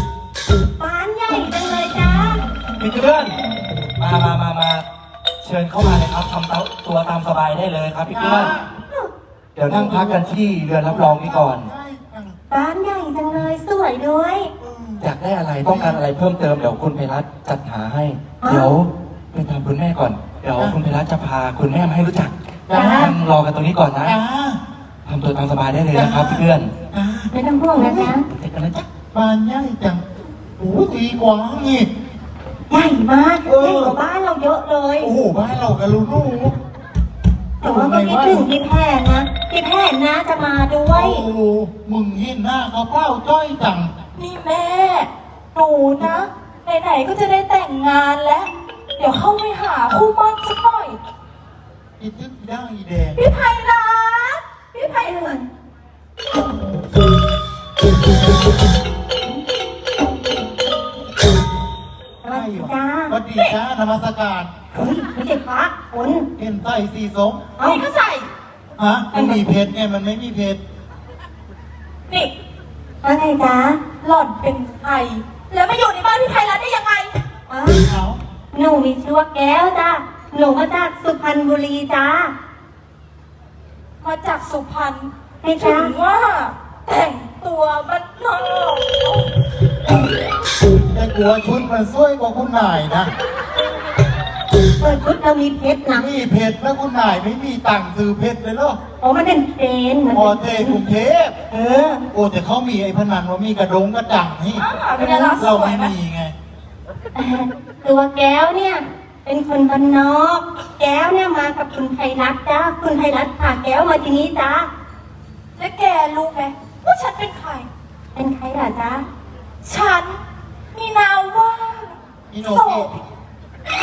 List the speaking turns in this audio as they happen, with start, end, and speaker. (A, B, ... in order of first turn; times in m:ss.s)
0:00.8-0:02.4 A
0:02.8-0:03.4 B
0:04.0-0:04.8 B
0:05.4-0:08.5 B
0:08.1-0:08.7 C
0:09.5-0:11.7 B
0:09.7-0:12.4 C
0:12.5-0:14.5 A
0:14.6-0:15.0 C
0:15.0-0:24.2 B
0:15.6-0:16.0 C
0:18.4-0:18.7 A
0:22.7-0:23.0 C
0:22.7-0:23.1 A
0:24.0-0:24.6 C
0:25.0-0:26.7 B
0:25.9-0:28.1 C
0:27.3-0:28.2 A
0:28.3-0:28.9 B
0:29.1-0:30.0 C
0:30.6-0:31.9 C
0:32.7-0:35.1 A
0:33.4-0:34.0 C
0:35.0-0:36.5 C
0:37.6-0:38.5 C
0:37.6-0:41.2 A
0:40.9-0:43.9 C
0:44.2-0:51.0 D
0:52.0-0:53.2 C
0:53.2-0:55.4 D
0:54.8-0:55.5 A
1:02.2-1:03.2 A
1:02.3-1:04.5 C
1:04.7-1:06.3 A
1:06.4-1:07.5 C
1:07.6-1:08.3 D
1:08.8-1:10.6 C
1:09.1-1:09.5 A
1:13.0-1:13.8 A
1:14.0-1:17.1 D
1:17.5-1:17.8 A
1:17.7-1:18.2 C
1:18.5-1:22.3 A
1:24.0-1:29.3 D
1:25.4-1:26.0 A
1:30.9-1:33.1 C
1:34.8-1:36.1 A
1:35.9-1:38.8 C
1:39.0-1:40.8 A
1:40.1-1:41.4 C
1:41.5-1:42.0 A
1:42.1-1:44.6 C
1:44.6-1:45.9 D
1:45.0-1:45.4 A
1:45.4-1:46.3 C
1:47.1-1:54.7 A
1:55.6-1:57.7 D
1:58.1-1:59.1 A
1:59.6-2:00.2 D
2:00.7-2:02.9 D
2:02.3-2:02.9 C